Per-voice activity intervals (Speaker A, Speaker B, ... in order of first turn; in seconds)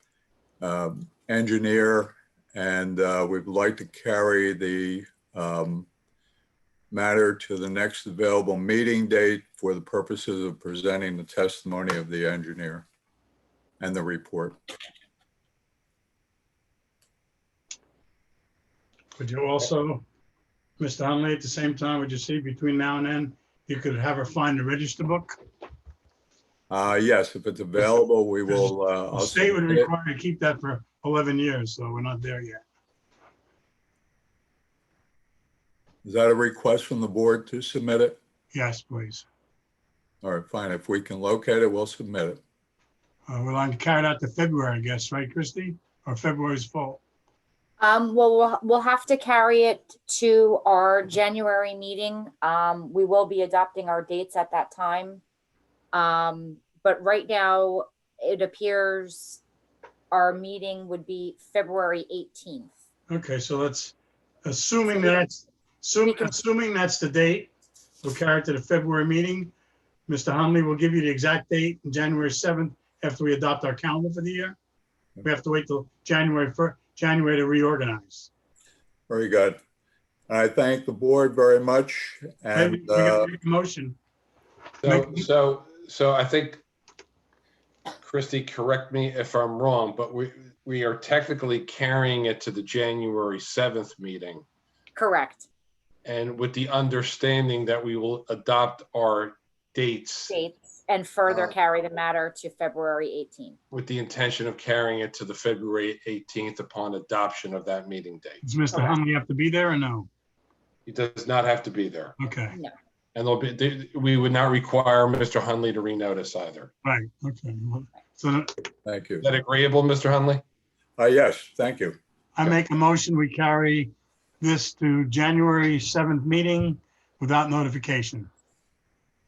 Speaker A: 0.6-5.9, 6.9-12.8, 13.8-14.6, 26.7-29.9, 36.0-38.2, 40.2-42.4, 79.1-79.6, 80.3-83.3, 118.8-119.3, 121.0-122.0
Speaker B: 19.2-20.0, 20.8-25.4, 28.5-32.6, 38.5-39.2, 43.3-47.0, 63.1-67.5, 68.0-69.5, 70.1-74.6, 75.2-78.3, 82.5-84.0, 108.4-110.1, 112.2-112.5, 116.8-118.7, 122.3-128.3
Speaker C: 47.8-55.2, 55.9-59.4, 60.1-62.7, 94.9-95.5, 100.3-103.6
Speaker D: 84.8-86.6, 88.0-94.4, 96.0-100.3, 103.7-108.4, 110.8-112.1, 113.1-116.7, 119.2-120.4